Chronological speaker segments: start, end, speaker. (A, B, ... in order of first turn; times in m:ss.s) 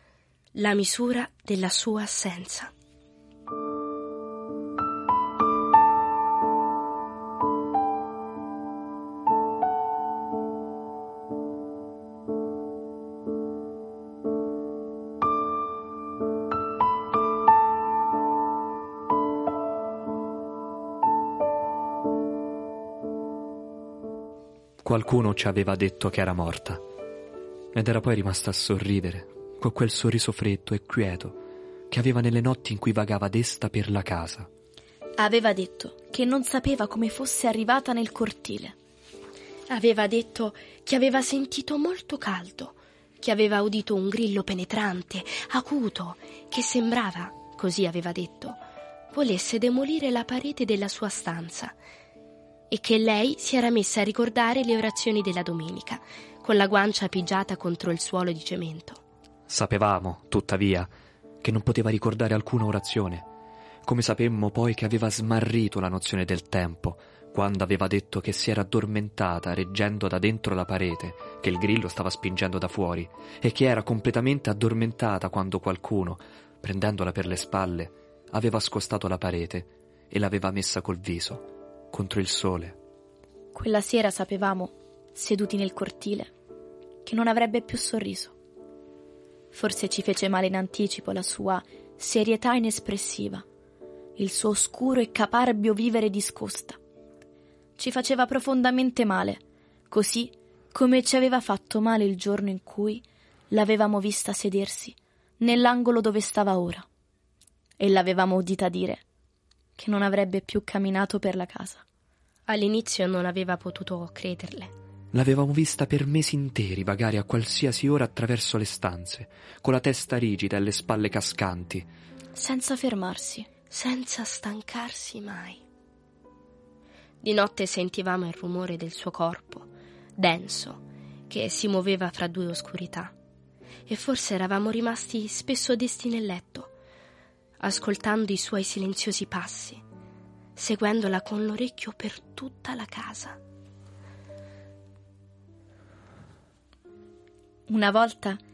0:00.6-0:02.7 A
0:24.8-0:26.8 B
0:27.7-0:34.5 B
0:35.2-0:38.8 C
0:39.7-0:48.6 A
0:49.1-0:51.8 A
0:52.7-0:59.0 A
0:59.5-1:00.9 B
1:01.4-1:03.3 B
1:03.8-1:22.8 B
1:23.5-1:26.3 C
1:27.0-1:28.4 C
1:29.5-1:33.4 C
1:34.2-1:36.8 C
1:37.8-1:46.9 C
1:47.8-1:49.0 C
1:49.8-1:51.8 C
1:52.5-1:54.7 A
1:55.1-2:01.9 B
2:02.4-2:03.5 C
2:03.7-2:05.6 A
2:07.2-2:13.1 A
2:13.9-2:16.7 A
2:17.6-2:19.8 A
2:20.6-2:23.4 A
2:27.7-2:28.4 C